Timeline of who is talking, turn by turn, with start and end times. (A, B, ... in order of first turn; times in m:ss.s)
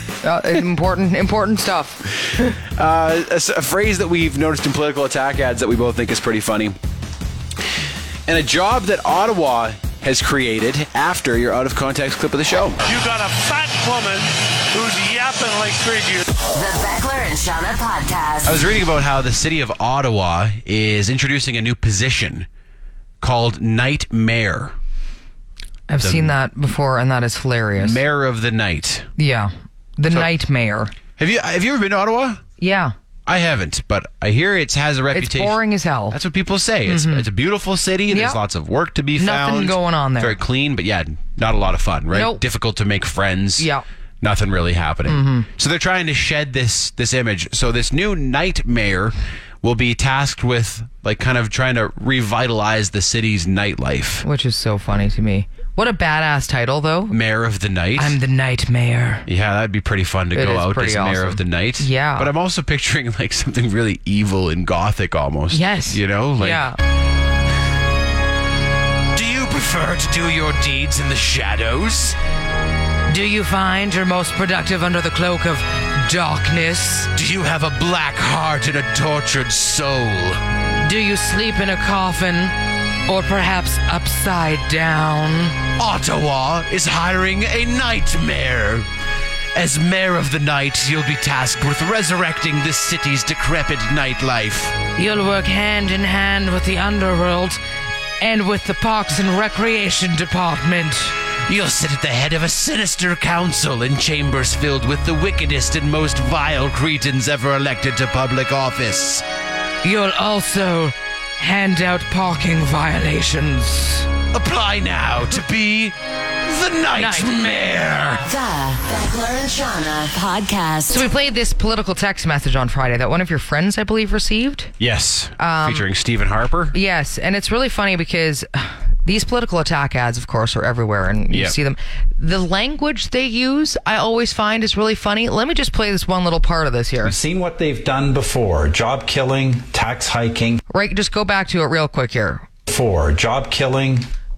0:00.2-0:02.6 A
0:02.7-0:06.8 B
0:08.3-0:12.9 B
0:12.8-0:16.3 C
0:16.5-0:18.6 D
0:18.4-0:22.5 B
0:23.2-0:24.7 B
0:25.9-0:28.0 A
0:26.0-0:26.3 B
0:27.8-0:29.1 B
0:29.2-0:30.9 A
0:31.2-0:32.4 B
0:32.6-0:32.9 A
0:33.2-0:35.6 B
0:35.1-0:36.2 A
0:36.1-0:43.7 B
0:36.8-0:37.2 A
0:38.1-0:38.4 A
0:39.2-0:40.3 A
0:42.1-0:42.4 A
0:43.6-0:43.8 A
0:44.2-0:54.2 B
0:45.0-0:45.5 A
0:54.2-0:57.2 A
0:57.1-0:58.2 B
0:58.0-0:59.2 A
0:59.2-1:06.6 B
1:00.3-1:02.3 A
1:05.5-1:06.8 A
1:09.1-1:12.2 B
1:13.1-1:17.1 A
1:17.1-1:20.4 B
1:20.8-1:25.6 A
1:25.7-1:28.9 B
1:29.5-1:34.8 B
1:35.0-1:37.6 A
1:38.2-1:41.2 A
1:41.4-1:49.2 B
1:49.8-1:54.1 A
1:54.3-1:58.3 B
1:57.0-1:57.3 A
1:58.3-2:01.1 D
2:00.9-2:04.7 A
2:04.8-2:06.7 B
2:05.4-2:05.9 A
2:06.7-2:17.1 A
2:11.3-2:11.6 B
2:17.0-2:20.6 E
2:20.7-2:22.4 A
2:22.7-2:24.1 E